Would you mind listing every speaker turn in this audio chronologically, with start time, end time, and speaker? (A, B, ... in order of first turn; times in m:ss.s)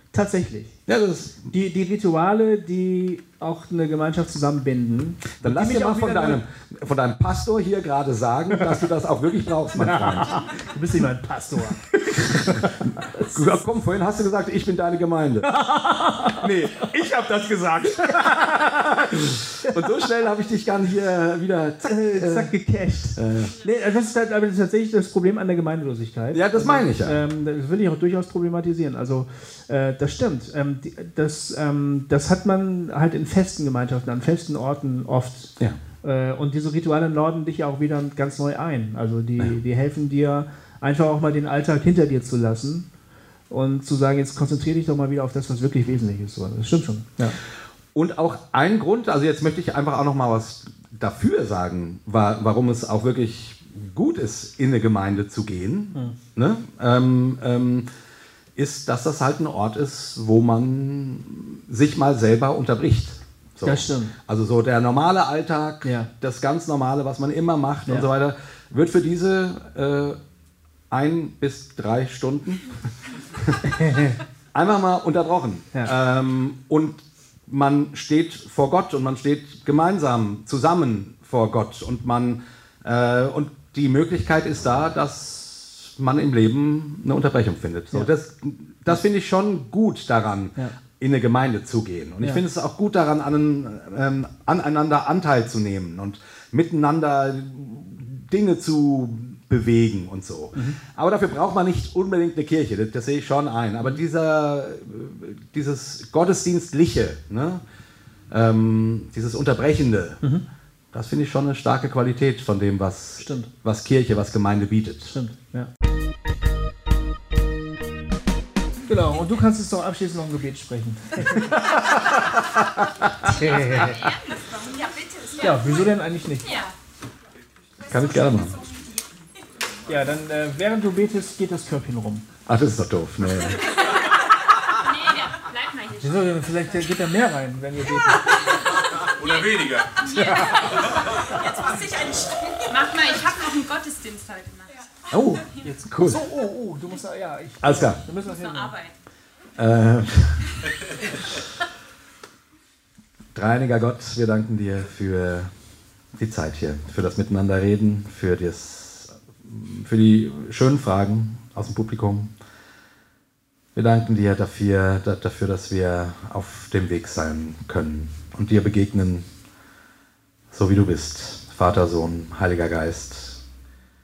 0:00.1-0:00.8 A
0:00.9-0:01.5 B
0:01.5-0:06.4 A
0:05.4-0:10.3 B
0:08.5-0:08.8 A
0:09.8-0:13.5 A
0:11.7-0:15.5 B
0:15.4-0:16.9 A
0:16.3-0:22.5 B
0:18.0-0:19.9 A
0:21.8-0:42.9 A
0:23.2-0:23.5 B
0:26.3-0:27.2 B
0:43.5-0:47.4 A
0:47.9-0:57.8 B
0:58.6-1:10.2 B
1:03.6-1:04.2 A
1:05.8-1:06.1 A
1:10.9-1:12.7 B
1:13.3-1:13.6 B
1:13.6-1:14.2 A
1:14.5-1:47.6 B
1:48.3-1:50.2 B
1:50.9-1:55.1 B
1:53.2-1:53.5 A
1:55.1-1:55.7 A
1:58.8-2:02.0 A
2:01.4-2:04.2 B
2:03.2-2:04.1 A
2:03.6-2:05.6 C
2:05.4-2:06.5 A
2:06.4-2:06.7 C
2:07.9-2:08.6 B
2:09.9-2:12.3 A
2:12.4-2:13.7 B
2:14.7-2:16.4 C
2:16.0-2:18.4 A
2:19.3-2:24.9 C
2:20.0-2:21.5 A
2:25.1-2:26.2 B
2:25.6-2:28.8 A
2:27.6-2:28.0 B
2:29.6-2:31.4 B
2:33.3-2:35.5 B
2:36.1-2:42.3 B
2:43.7-2:49.3 B
2:50.5-2:53.4 B